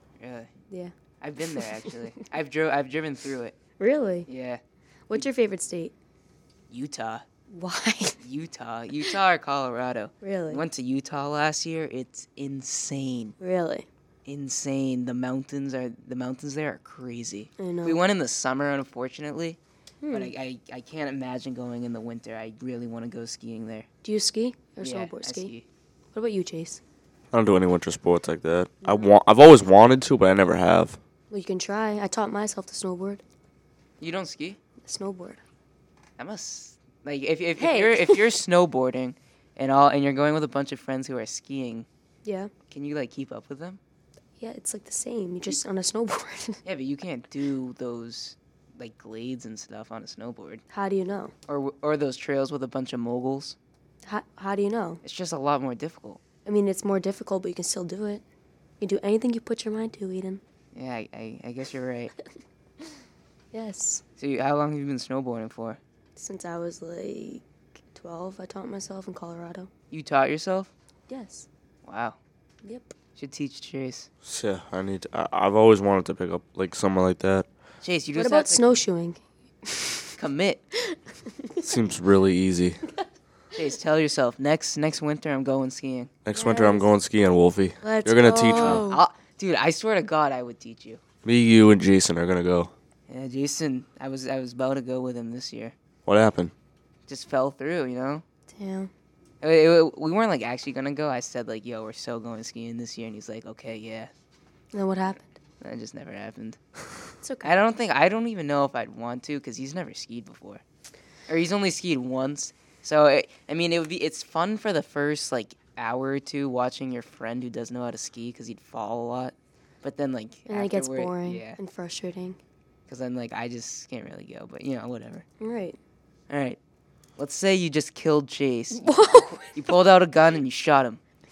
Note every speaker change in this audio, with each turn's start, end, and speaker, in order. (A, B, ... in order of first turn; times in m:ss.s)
0:00.2-0:00.5 A
0:00.7-0:01.7 B
0:01.2-0:03.6 A
0:03.8-0:04.3 B
0:04.3-0:04.6 A
0:05.1-0:05.9 B
0:06.7-0:07.2 A
0:07.5-0:08.2 B
0:08.2-0:13.4 A
0:10.2-0:10.6 B
0:13.4-0:13.9 B
0:14.2-0:19.6 A
0:17.6-0:18.0 B
0:20.0-0:20.3 B
0:20.1-0:23.9 A
0:24.0-0:25.5 B
0:24.8-0:25.6 A
0:26.1-0:26.8 B
0:27.3-0:31.0 C
0:28.8-0:29.1 B
0:31.3-0:33.2 B
0:34.0-0:34.6 A
0:34.8-0:35.4 B
0:36.2-0:41.9 A
0:37.6-0:38.2 B
0:42.2-0:42.5 B
0:42.7-0:43.8 A
0:44.4-0:46.6 B
0:46.6-0:50.6 A
0:50.7-0:51.3 B
0:51.5-0:53.6 A
0:54.1-0:55.0 B
0:55.0-0:56.2 A
0:56.4-0:58.2 B
0:58.8-1:00.4 B
1:00.7-1:02.1 A
1:03.5-1:04.0 B
1:04.2-1:05.8 A
1:06.2-1:07.4 B
1:07.9-1:09.7 B
1:09.9-1:10.7 A
1:11.1-1:11.5 B
1:11.8-1:12.2 A
1:12.6-1:12.9 B
1:13.2-1:14.1 A
1:14.2-1:17.5 C
1:17.8-1:18.7 A
1:18.1-1:20.1 B
1:20.2-1:20.6 A
1:20.9-1:21.6 B
1:21.6-1:22.8 C
1:23.6-1:26.1 A
1:26.2-1:28.8 C
1:26.3-1:27.0 B
1:27.8-1:29.0 B
1:28.5-1:31.0 A
1:31.2-1:32.7 C
1:33.1-1:35.8 A
1:36.1-1:36.5 C
1:37.1-1:38.2 A
1:38.5-1:38.9 B
1:39.4-1:44.1 A
1:44.7-1:45.3 B
1:45.6-1:46.6 A
1:47.2-1:47.5 B
1:47.4-1:50.6 A
1:51.3-2:01.6 A
2:00.5-2:02.4 B
2:02.9-2:05.2 A
2:05.4-2:05.8 B
2:06.3-2:06.6 A
2:07.2-2:11.0 A
2:08.7-2:09.7 B